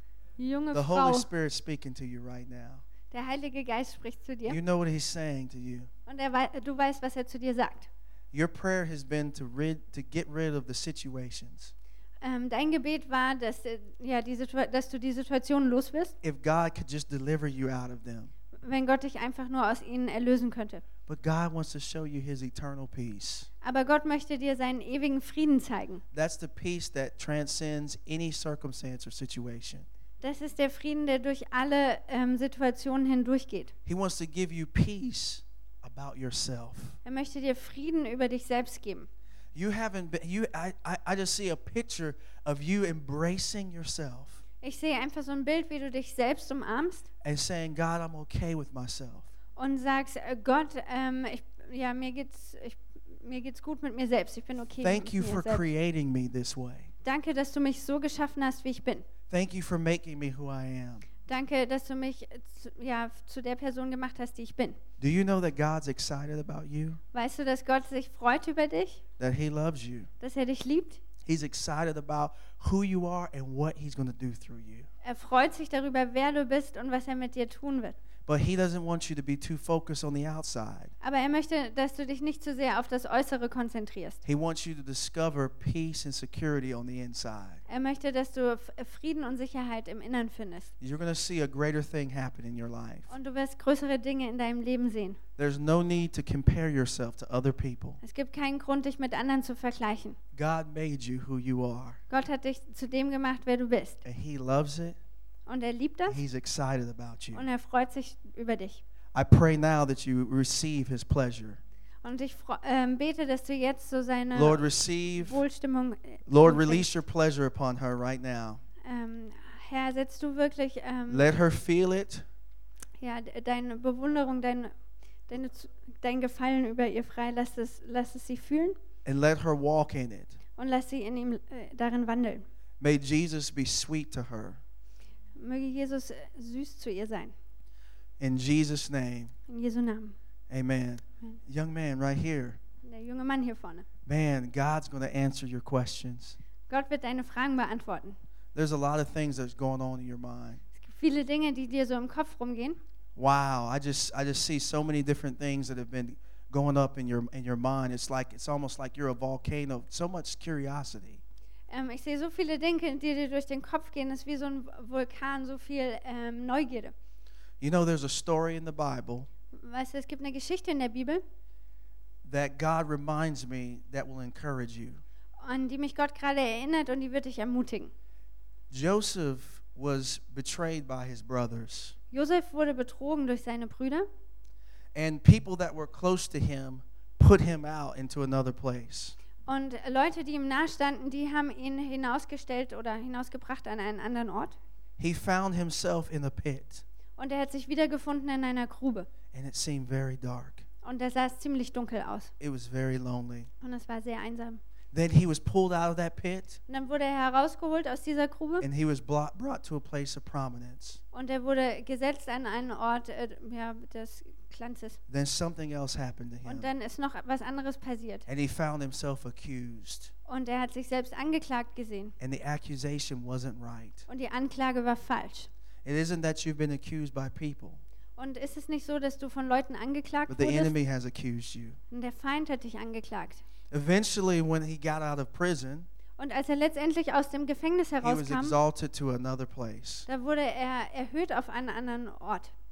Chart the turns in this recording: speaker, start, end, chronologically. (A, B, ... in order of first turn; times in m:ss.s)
0:00.4-0:01.3 A
0:00.7-0:02.8 B
0:03.1-0:04.6 A
0:04.5-0:05.9 B
0:06.1-0:07.9 A
0:08.3-0:11.7 B
0:12.2-0:16.1 A
0:16.2-0:18.3 B
0:18.6-0:20.8 A
0:21.1-0:23.5 B
0:23.6-0:26.0 A
0:26.1-0:29.8 B
0:30.2-0:33.7 A
0:33.8-0:37.0 B
0:37.0-0:39.1 A
0:39.5-0:44.4 B
0:44.6-0:47.0 A
0:47.2-0:49.3 B
0:49.6-0:55.6 A
0:54.8-0:56.9 B
0:57.0-0:59.0 A
0:59.3-1:01.1 B
1:01.3-1:04.8 A
1:05.0-1:07.0 B
1:07.1-1:09.0 A
1:09.2-1:10.1 B
1:10.2-1:11.0 A
1:11.2-1:14.9 B
1:15.0-1:18.0 A
1:18.2-1:20.9 B
1:21.0-1:24.2 A
1:24.2-1:27.6 B
1:27.7-1:30.7 A
1:30.8-1:33.1 B
1:33.1-1:35.2 A
1:35.4-1:38.0 B
1:38.0-1:40.2 A
1:40.3-1:42.0 B
1:42.1-1:44.0 A
1:44.0-1:45.0 B
1:45.5-1:46.2 A
1:46.1-1:47.4 B
1:47.3-1:48.8 A
1:49.1-1:51.6 B
1:52.0-1:56.9 A
1:54.3-1:55.4 B
1:56.3-1:58.6 B
1:58.8-2:01.3 A
2:01.1-2:02.2 B
2:03.0-2:04.7 A
2:05.3-2:08.8 A
2:09.0-2:10.4 B
2:10.6-2:12.4 A
2:12.8-2:14.6 B
2:15.4-2:17.3 A
2:18.2-2:19.3 B
2:19.5-2:20.2 A
2:20.5-2:22.6 B
2:22.8-2:23.8 A
2:24.0-2:26.4 B
2:26.7-2:28.2 A
2:28.5-2:30.6 B
2:30.7-2:32.8 A
2:33.2-2:41.2 B
2:41.7-2:46.9 A
2:47.6-2:49.3 B
2:49.5-2:51.2 A
2:52.2-2:55.0 B
2:55.4-2:57.9 A
2:58.7-3:01.9 B
3:02.1-3:04.1 A
3:04.9-3:09.2 B
3:09.4-3:14.6 A
3:15.0-3:16.8 B
3:17.2-3:19.1 A
3:19.3-3:20.6 B
3:20.8-3:22.3 A
3:22.4-3:23.5 B
3:23.6-3:24.6 A
3:24.9-3:26.6 B
3:26.7-3:28.6 A
3:28.6-3:31.0 B
3:31.1-3:35.0 A
3:35.1-3:36.7 B
3:36.4-3:38.2 A
3:38.3-3:40.1 B
3:40.3-3:42.1 A
3:42.2-3:44.0 B
3:44.1-3:45.5 A
3:45.8-3:47.8 B
3:48.2-3:50.7 A
3:50.3-3:51.8 B
3:51.9-3:53.4 A
3:53.7-3:55.9 B
3:56.2-3:58.6 A
3:58.0-4:00.1 B
4:00.1-4:02.5 A